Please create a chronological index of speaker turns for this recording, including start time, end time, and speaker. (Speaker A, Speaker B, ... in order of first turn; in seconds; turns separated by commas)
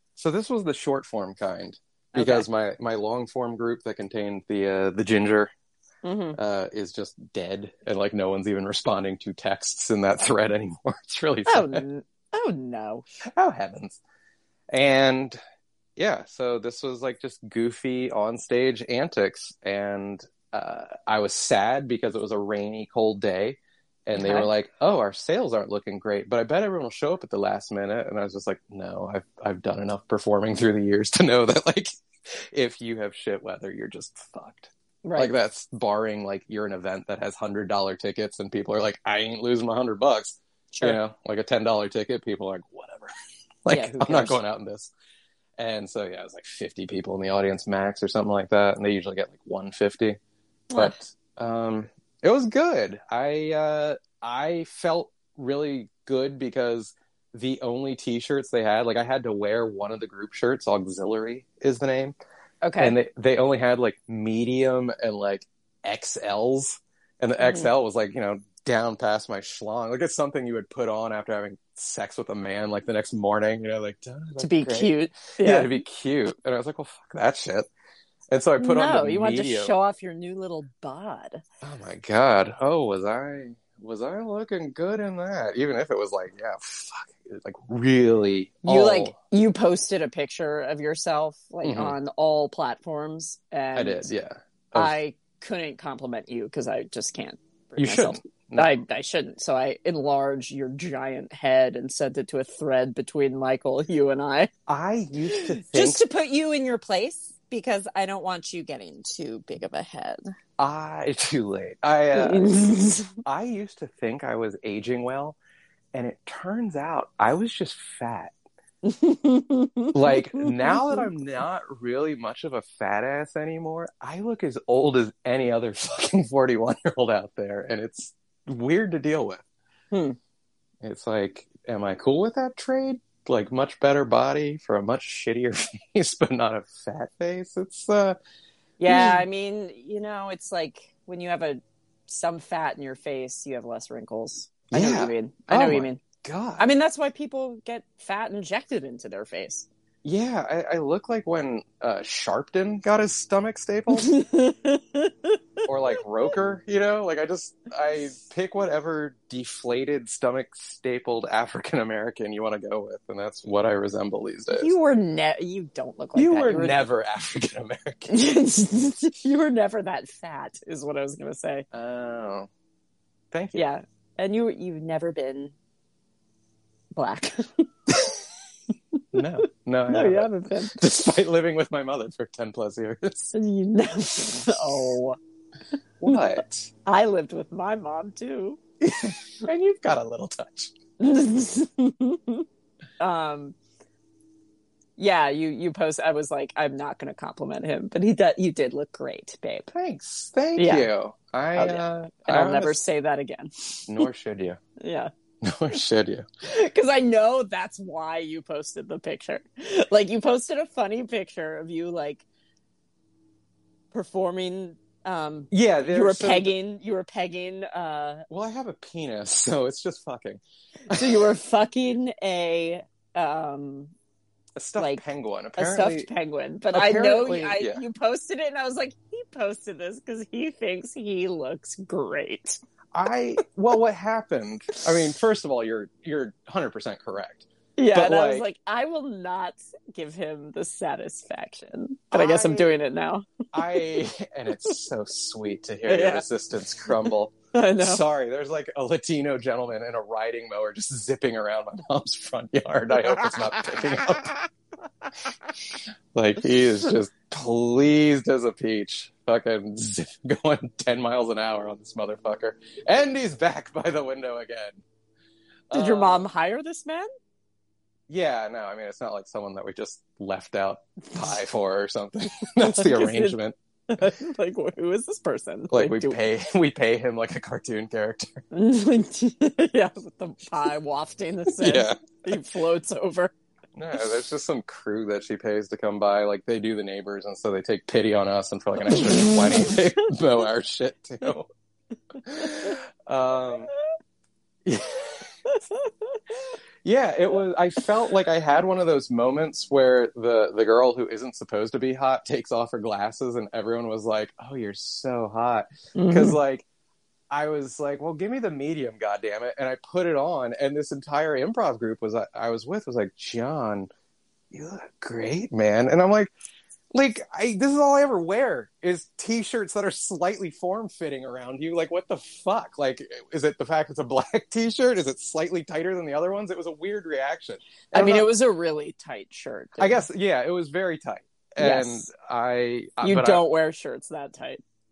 Speaker A: 0.2-5.5, Speaker B: 2.1-2.5, Speaker B: 6.0-6.4, Speaker A: 6.3-11.8, Speaker B: 11.5-13.1, Speaker A: 13.2-14.0, Speaker A: 14.7-15.4, Speaker A: 16.0-43.1, Speaker B: 24.2-24.5, Speaker B: 35.0-35.3, Speaker B: 40.7-41.0, Speaker A: 43.6-44.9, Speaker B: 43.7-44.4, Speaker A: 45.6-50.2, Speaker A: 50.8-62.1, Speaker B: 62.6-63.0, Speaker A: 62.8-77.7, Speaker B: 67.4-67.7, Speaker B: 74.4-75.8, Speaker A: 78.3-79.7, Speaker B: 78.6-81.4, Speaker A: 81.6-89.2, Speaker B: 88.6-94.1, Speaker A: 91.6-92.0, Speaker A: 93.8-94.9, Speaker B: 94.7-104.5, Speaker A: 97.8-98.8, Speaker A: 104.7-106.0, Speaker B: 105.3-110.2, Speaker A: 110.6-115.4, Speaker B: 112.1-113.2, Speaker A: 115.9-118.3, Speaker B: 118.8-121.0, Speaker A: 119.9-129.4, Speaker B: 129.9-130.2, Speaker A: 130.8-138.2, Speaker B: 138.8-146.0, Speaker A: 138.9-139.2, Speaker A: 144.7-146.7, Speaker B: 146.6-149.7, Speaker A: 150.0-154.1, Speaker B: 153.9-155.4, Speaker A: 155.7-164.7, Speaker B: 164.5-166.8, Speaker A: 166.2-168.2, Speaker B: 168.1-171.7, Speaker A: 171.7-172.5, Speaker A: 173.3-173.6, Speaker B: 173.6-175.5, Speaker B: 177.0-178.1, Speaker B: 179.0-179.2, Speaker A: 179.1-183.3, Speaker B: 179.9-180.8, Speaker B: 183.3-185.2, Speaker A: 186.0-186.7, Speaker B: 186.8-188.6, Speaker A: 188.8-190.8, Speaker B: 191.0-192.5, Speaker B: 193.0-193.6, Speaker B: 195.0-199.7, Speaker A: 199.7-202.8, Speaker B: 200.6-200.9, Speaker B: 201.6-204.0, Speaker A: 203.9-204.6, Speaker B: 204.8-205.1, Speaker A: 205.4-206.3, Speaker B: 206.4-212.2, Speaker B: 213.9-218.2, Speaker A: 215.5-216.5, Speaker A: 218.3-221.2, Speaker B: 220.9-223.9, Speaker A: 224.6-226.1, Speaker B: 225.6-232.6, Speaker A: 226.7-227.8, Speaker A: 232.9-238.4, Speaker B: 237.8-243.9, Speaker A: 242.1-242.7, Speaker A: 243.5-254.4, Speaker B: 245.8-246.3, Speaker B: 247.5-248.0, Speaker A: 256.1-264.8, Speaker A: 265.7-266.2, Speaker B: 265.7-267.1, Speaker A: 268.1-274.1, Speaker B: 272.6-273.4, Speaker B: 273.9-276.2, Speaker A: 275.7-278.4, Speaker B: 278.5-283.3, Speaker A: 281.5-282.1, Speaker A: 283.8-291.5, Speaker B: 288.9-289.7, Speaker A: 292.2-293.7, Speaker B: 292.4-292.7, Speaker A: 294.6-295.3, Speaker B: 295.5-296.6, Speaker A: 296.8-306.7, Speaker B: 306.0-306.4, Speaker A: 307.3-313.9, Speaker A: 314.5-316.3, Speaker A: 316.9-328.3, Speaker B: 327.9-330.1, Speaker A: 329.8-333.4, Speaker B: 331.6-332.1, Speaker B: 333.0-334.6